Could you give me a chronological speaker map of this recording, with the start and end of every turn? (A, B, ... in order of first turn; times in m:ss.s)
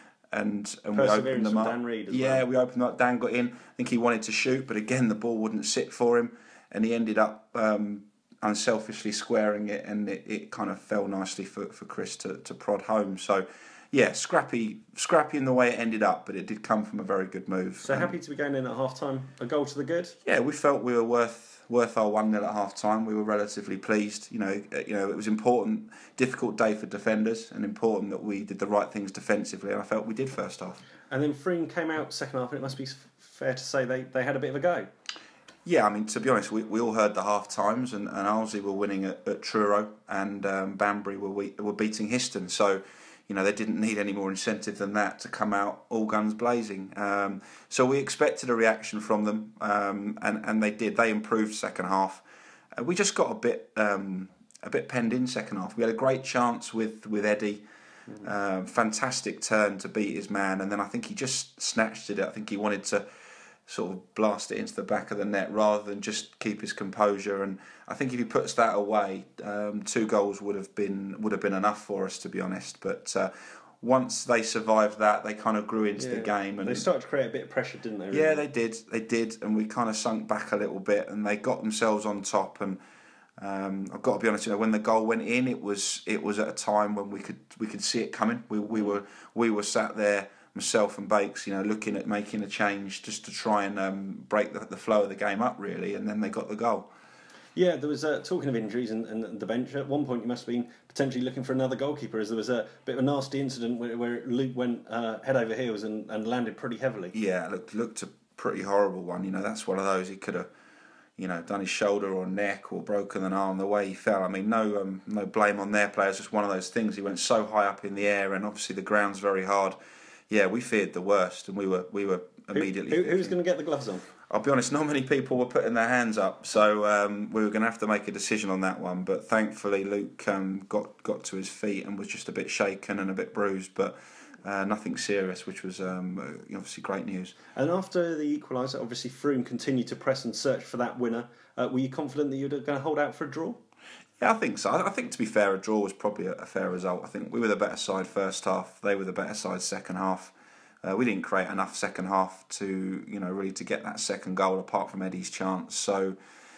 0:00.3-0:18.1 A
0:00.9-0:02.4 B
0:17.8-0:20.2 B
0:20.2-0:30.8 A
0:31.1-0:34.9 B
0:35.6-0:52.2 A
0:52.8-0:57.6 A
0:58.2-1:03.0 A
1:03.7-1:16.8 A
1:16.0-1:18.4 B
1:18.1-1:22.8 A
1:23.4-1:36.9 A
1:37.5-1:47.1 B
1:47.1-1:50.5 A
1:51.2-1:59.8 A
2:00.3-2:03.4 A
2:02.5-2:04.1 B
2:04.3-2:17.3 A
2:17.5-2:23.6 B
2:24.2-2:36.2 A